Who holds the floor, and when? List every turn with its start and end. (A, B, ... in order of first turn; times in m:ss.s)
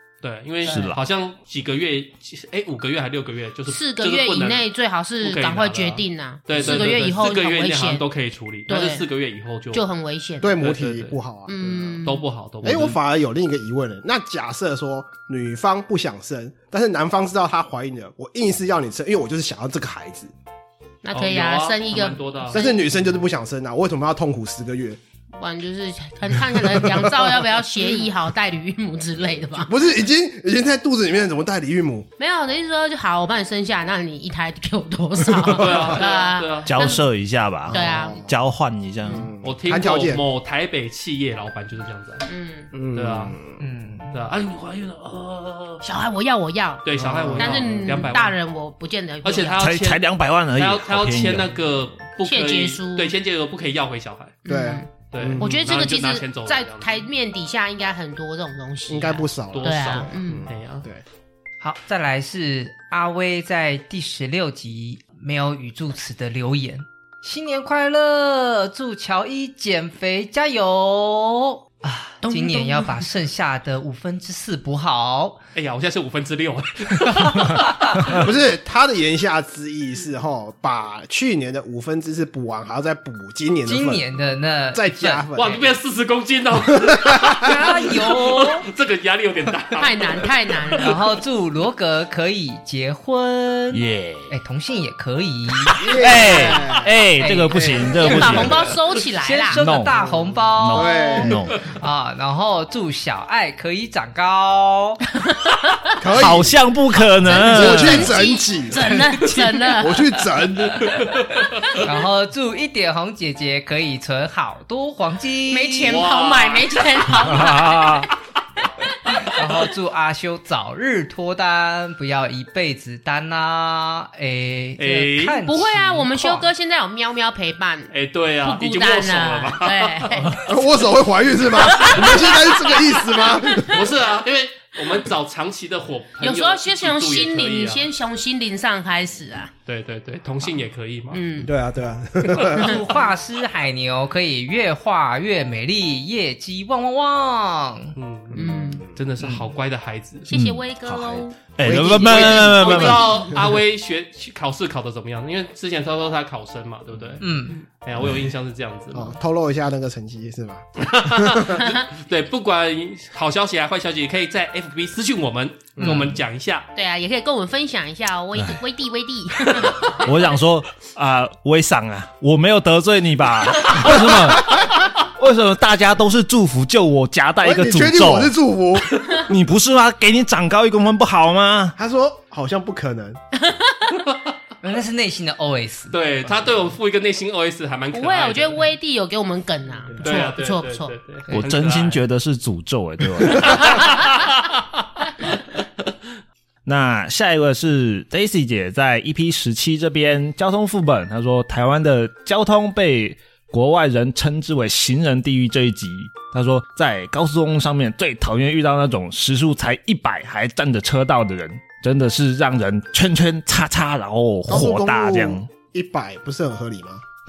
0:00.2-0:04.7 A
0:00.7-0:01.0 B
0:03.7-0:08.0 C
0:05.2-0:09.8 A
0:08.7-0:09.1 C
0:09.7-0:10.5 C
0:10.4-0:12.0 D
0:10.6-0:11.2 A
0:11.5-0:12.2 C
0:12.0-0:13.0 A
0:12.6-0:20.3 D
0:21.0-0:23.1 C
0:21.1-0:22.6 A
0:22.5-0:25.0 D
0:25.4-0:29.7 C
0:26.6-0:27.3 D
0:29.6-0:32.1 D
0:32.2-0:37.0 C
0:35.3-0:36.0 D
0:35.5-0:36.9 A
0:36.7-0:39.3 B
0:37.7-0:38.3 D
0:37.7-0:38.2 C
0:39.0-0:40.2 D
0:39.4-0:42.3 A
0:42.3-0:42.7 C
0:42.7-0:43.6 D
0:42.9-0:43.4 A
0:43.6-0:44.2 E
0:44.1-0:45.8 A
0:45.8-0:49.6 C
0:46.8-0:48.4 A
0:47.0-0:48.0 D
0:49.2-0:50.0 A
0:49.6-0:51.5 B
0:50.6-0:54.4 A
0:52.2-0:53.1 C
0:54.5-1:00.5 C
0:54.5-0:55.7 D
0:55.1-0:57.1 A
0:58.9-1:01.0 D
0:59.5-1:00.9 A
1:01.6-1:15.4 E
1:12.2-1:13.1 C
1:15.6-1:17.8 A
1:17.3-1:18.0 E
1:18.1-1:24.1 D
1:23.6-1:25.6 E
1:24.7-1:25.7 D
1:25.4-1:31.0 A
1:26.7-1:27.5 D
1:27.4-1:28.7 E
1:29.8-1:30.9 C
1:30.8-1:35.8 E
1:33.7-1:34.3 B
1:35.8-1:36.9 D
1:35.9-1:38.6 B
1:36.2-1:36.6 C
1:37.2-1:45.0 E
1:37.9-1:39.6 C
1:39.5-1:40.0 B
1:39.9-1:41.5 D
1:40.6-1:41.6 B
1:46.0-1:46.6 D
1:46.1-1:48.2 B
1:47.2-1:50.2 C
1:47.3-1:48.9 D
1:49.8-1:51.0 D
1:50.8-1:51.7 A
1:51.7-1:56.0 E
1:55.5-1:58.1 C
1:55.8-1:57.3 A
1:57.2-1:58.1 B
1:59.2-2:06.5 E
2:04.8-2:05.4 A
2:05.4-2:07.9 C
2:07.9-2:10.4 A
2:08.4-2:10.5 C
2:10.4-2:13.8 D
2:11.6-2:13.8 C
2:13.7-2:17.9 A
2:16.2-2:19.5 C
2:19.7-2:21.2 A
2:21.1-2:21.5 C
2:21.4-2:22.8 D
2:22.5-2:28.0 E
2:22.6-2:22.8 C
2:28.0-2:30.3 A
2:28.4-2:29.0 D
2:28.4-2:28.8 C
2:29.2-2:29.5 E
2:30.3-2:33.4 C
2:30.3-2:33.1 B
2:31.6-2:32.8 D
2:32.5-2:37.2 A
2:37.2-2:37.6 E
2:37.8-2:39.2 A
2:38.9-2:41.5 D
2:40.8-2:46.7 A
2:45.8-2:46.1 E
2:46.8-2:50.1 C
2:48.4-2:48.6 B
2:50.0-2:58.3 B
2:57.4-2:59.0 D
2:59.1-3:01.8 B
3:01.8-3:03.2 D
3:03.4-3:04.0 C
3:04.6-3:06.0 E
3:05.9-3:08.7 A
3:07.9-3:10.9 C
3:10.0-3:12.0 A
3:11.3-3:13.8 B
3:13.4-3:14.6 A
3:16.6-3:35.5 B
3:34.5-3:37.0 D